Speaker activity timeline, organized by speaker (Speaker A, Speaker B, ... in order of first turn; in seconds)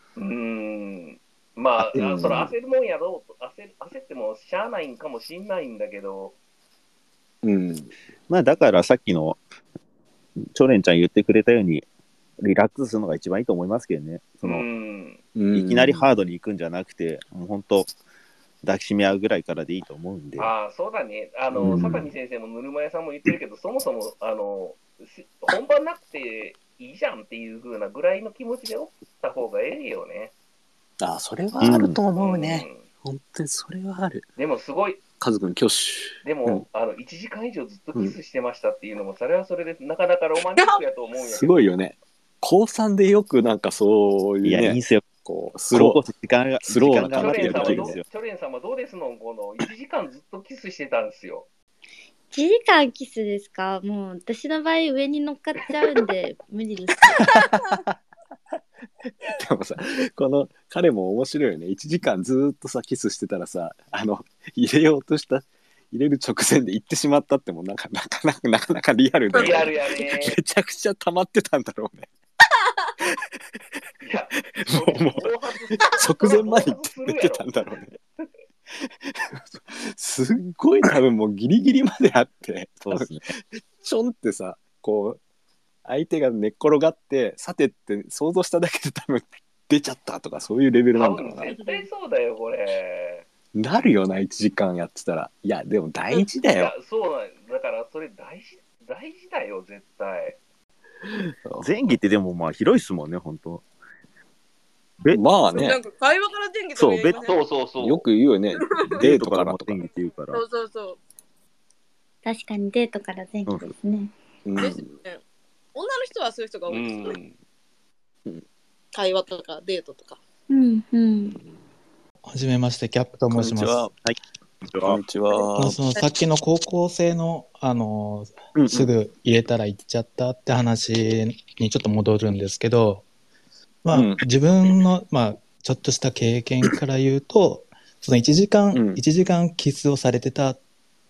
Speaker A: 0.1-6.3, 14.4-15.2, 20.4-30.3, 32.2-32.8, 34.4-35.0, 36.2-41.6, 47.1-51.5, 69.3-70.4, 74.0-77.6, 90.9-93.2, 96.5-100.4, 107.2-108.0, 116.7-117.3
Speaker B: 1.8-2.5, 8.3-9.4, 10.4-11.8, 12.4-14.7, 15.5-17.9, 18.6-20.5, 21.6-22.1, 31.6-31.9, 44.4-45.1, 45.7-48.0, 82.8-83.2, 101.6-103.6, 106.7-107.2, 109.0-110.4, 124.0-125.0
Speaker C: 2.0-2.4, 7.4-7.9, 15.3-16.1, 21.6-21.9, 31.0-34.3, 35.2-36.6, 41.2-46.0, 46.6-48.0, 57.2-57.9, 59.3-72.1, 74.6-78.0, 78.8-85.2, 85.8-91.8, 93.5-96.7, 101.1-102.0, 105.1-105.8, 107.8-109.8, 114.5-114.9, 123.3-123.9, 124.8-125.8, 128.6-128.9, 133.9-134.2, 138.7-139.0
Speaker D: 52.3-57.1, 112.2-114.1, 120.5-121.4
Speaker E: 69.3-70.0, 105.4-107.4, 108.5-109.0, 110.3-111.0, 114.5-115.2, 115.7-117.2, 118.9-120.2
Speaker F: 122.3-123.8, 125.6-133.1, 133.8-140.6